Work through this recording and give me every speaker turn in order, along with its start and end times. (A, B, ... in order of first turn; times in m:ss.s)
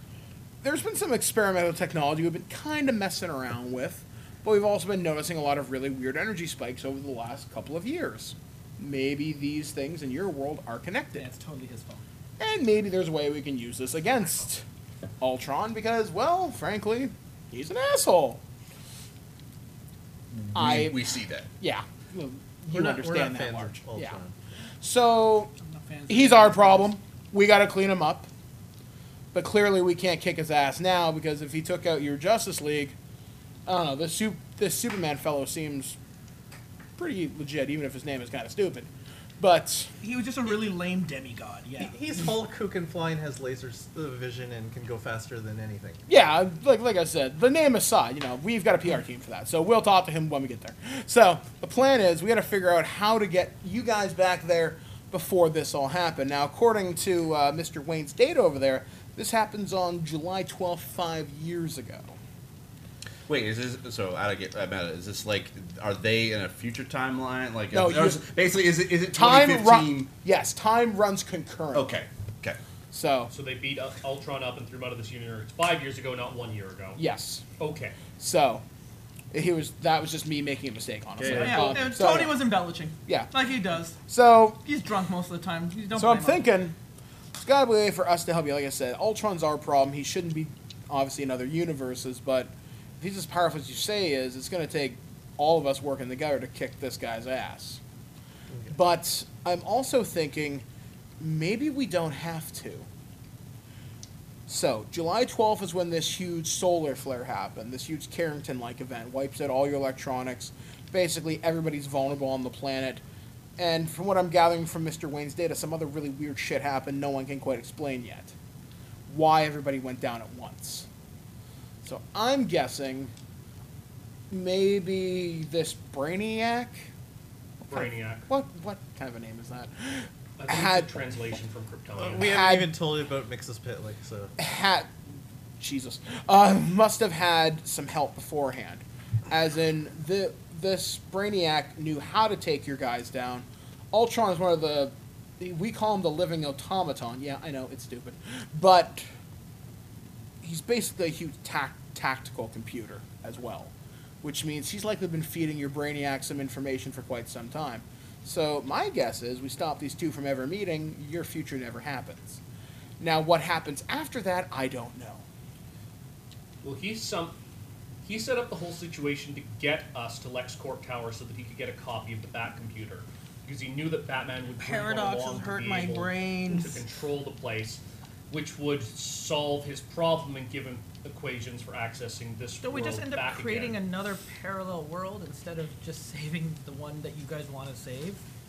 0:00.6-0:11.3 A
0:11.2-0:12.0 B
0:12.4-0:14.6 A
0:15.2-0:18.4 A
0:20.3-0:21.5 C
0:20.5-0:21.0 A
0:21.6-0:24.2 A
0:22.7-0:24.4 D
0:24.8-0:25.5 A
0:25.6-0:26.9 B
0:26.1-0:28.3 A
0:29.3-0:33.0 A
0:33.7-0:36.0 A
0:37.0-0:38.9 A
0:39.4-0:39.9 A
0:40.0-0:42.0 B
0:41.8-0:46.0 D
0:46.1-1:02.2 A
1:03.3-1:10.1 C
1:07.7-1:08.2 A
1:09.1-1:11.9 A
1:11.7-1:12.6 C
1:12.9-1:13.3 A
1:13.3-1:17.0 E
1:17.0-1:17.4 A
1:17.6-1:18.0 E
1:18.2-1:18.6 A
1:19.3-1:22.4 A
1:21.2-1:21.7 C
1:21.3-1:24.0 B
1:23.1-1:23.3 A
1:24.0-1:24.6 A
1:24.6-1:26.5 B
1:25.9-1:26.8 A
1:27.4-1:37.8 A
1:38.7-1:40.6 A
1:41.2-1:42.9 A
1:44.5-1:53.0 A
1:53.6-1:58.3 A
1:59.1-2:00.9 A
2:01.8-2:03.1 A
2:04.3-2:06.9 A
2:07.7-2:10.9 A
2:07.7-2:08.3 E
2:10.4-2:12.4 E
2:12.0-2:14.3 D
2:12.2-2:12.8 A
2:14.4-2:14.9 A
2:15.6-2:29.0 A
2:30.4-2:33.7 A
2:34.2-2:42.4 A
2:43.0-2:45.2 A
2:46.6-2:47.4 E
2:48.0-3:03.8 E
2:54.6-2:56.8 B
3:02.6-3:08.2 B